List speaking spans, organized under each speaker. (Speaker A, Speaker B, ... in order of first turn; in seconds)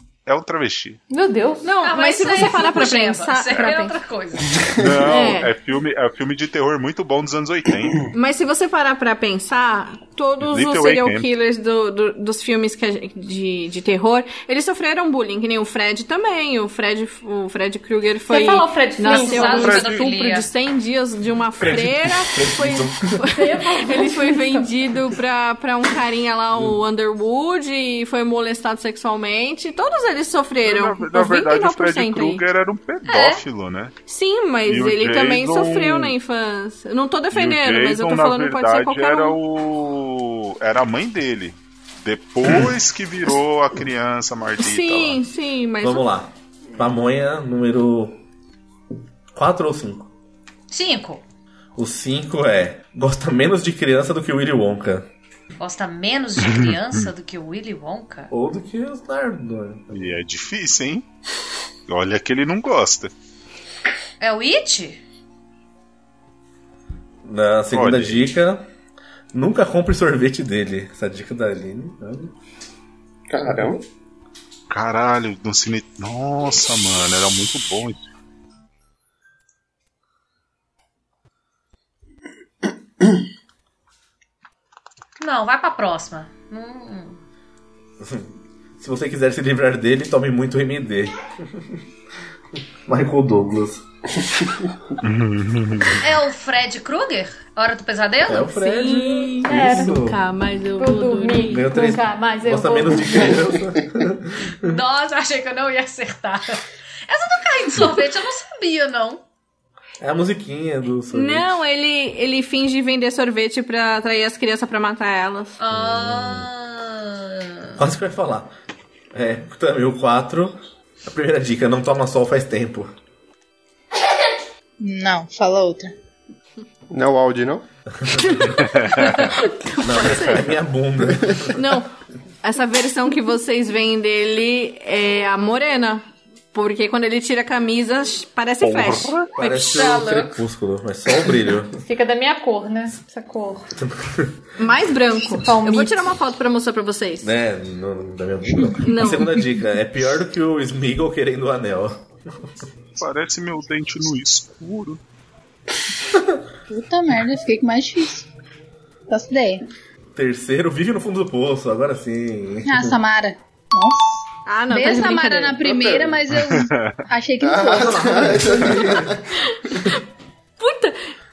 Speaker A: 0.2-1.0, 4.8-8.1, 10.4-11.3, 19.6-20.0, 30.6-33.9, 34.6-36.1, 37.3-45.2, 56.4-57.0, 59.9-61.0, 61.9-63.1, 67.7-68.2, 74.7-78.1, 95.0-96.0, 128.6-129.3, 138.6-139.3, 153.0-155.0, 166.3-167.0
Speaker B: 1.1-1.6, 18.3-19.7, 23.3-24.7, 99.5-100.0, 100.8-103.5, 141.8-143.7, 145.4-146.0
Speaker C: 1.6-4.0, 5.0-5.5, 8.1-32.4, 34.0-39.4, 44.6-46.1, 98.5-101.7, 111.1-115.5, 129.1-130.5, 131.5-131.9, 132.4-139.2, 144.6-147.3, 148.7-149.4, 164.4-165.7, 170.6-170.9
Speaker D: 1.8-4.7, 19.0-20.5, 33.1-33.4, 50.7-51.2, 55.6-58.3, 64.2-65.0, 85.2-87.2, 96.0-98.5, 104.6-109.2, 115.6-117.8, 139.4-140.4
Speaker E: 21.6-23.1, 45.8-48.2, 49.3-50.1, 51.8-55.1, 58.3-60.1, 67.2-68.6, 69.3-72.3, 88.0-91.8, 92.9-93.8, 98.3-100.2, 101.5-104.7, 110.0-111.5, 115.7-116.5, 117.8-118.5, 119.1-122.9, 128.0-128.6, 129.8-131.8, 139.3-141.8, 143.8-144.4, 147.2-152.0, 160.1-163.0, 167.8-169.2
Speaker F: 73.3-73.8, 126.9-127.6, 167.4-169.2
Speaker G: 124.8-125.9, 156.7-158.3, 159.1-159.6, 162.6-168.3